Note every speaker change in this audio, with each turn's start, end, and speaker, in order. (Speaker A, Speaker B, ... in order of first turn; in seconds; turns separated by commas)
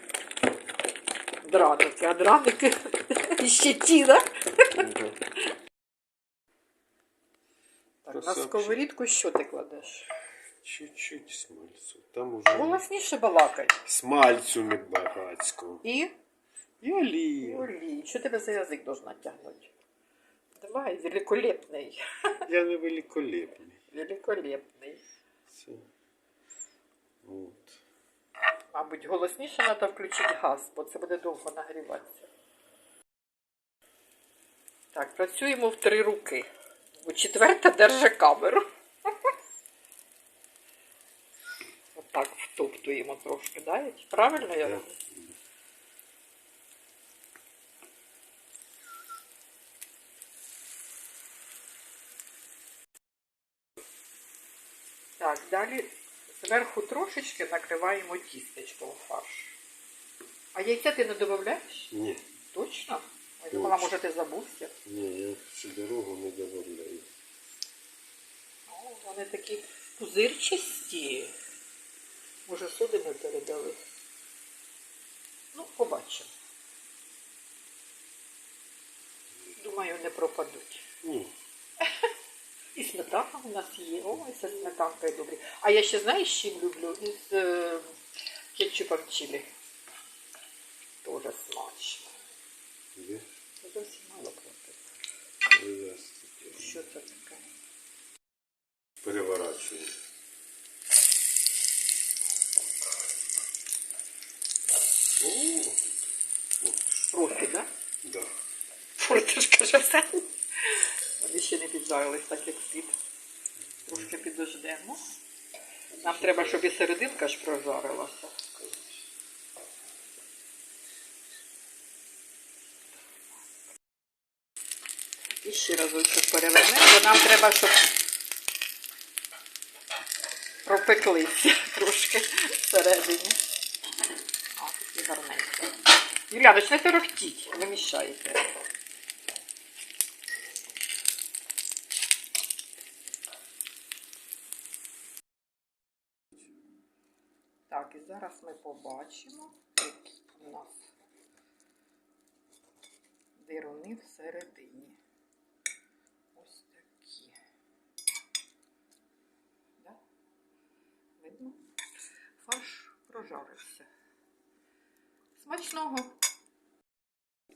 Speaker A: 1.4-4.8, Speaker B: 4.7-5.2, Speaker A: 8.0-10.1, Speaker B: 8.1-8.8, Speaker B: 10.6-12.8, Speaker A: 12.5-13.8, Speaker B: 13.8-15.8, Speaker A: 15.8-16.1, Speaker B: 16.8-17.7, Speaker A: 17.4-19.7, Speaker A: 20.6-22.4, Speaker B: 22.5-23.8, Speaker A: 23.9-25.0, Speaker B: 25.5-25.9, Speaker B: 27.2-27.8, Speaker A: 28.7-32.3, Speaker A: 34.9-39.3, Speaker A: 41.9-44.9, Speaker B: 44.4-45.4, Speaker A: 55.2-59.6, Speaker A: 60.5-61.9, Speaker B: 61.9-62.2, Speaker A: 62.5-64.7, Speaker B: 63.5-63.9, Speaker B: 64.8-67.1, Speaker A: 68.7-71.3, Speaker A: 72.5-73.8, Speaker A: 75.5-76.3, Speaker A: 79.6-80.8, Speaker B: 81.0-81.3, Speaker A: 81.8-82.1, Speaker A: 82.7-87.9, Speaker A: 88.5-89.5, Speaker A: 91.0-92.1, Speaker B: 93.0-93.2, Speaker A: 93.6-94.8, Speaker B: 95.5-96.8, Speaker A: 96.5-97.4, Speaker B: 99.0-100.0, Speaker B: 105.2-106.0, Speaker B: 106.6-107.1, Speaker A: 107.1-107.7, Speaker B: 108.0-108.3, Speaker A: 109.0-113.0, Speaker B: 113.8-114.1, Speaker A: 113.8-115.0, Speaker B: 115.9-116.6, Speaker A: 116.0-118.4, Speaker A: 125.3-127.9, Speaker A: 130.6-133.4, Speaker A: 134.6-135.7, Speaker A: 136.3-138.4, Speaker A: 147.7-150.9, Speaker A: 153.4-155.0, Speaker A: 156.3-157.3, Speaker A: 161.2-161.6, Speaker A: 162.4-163.9, Speaker A: 165.3-166.1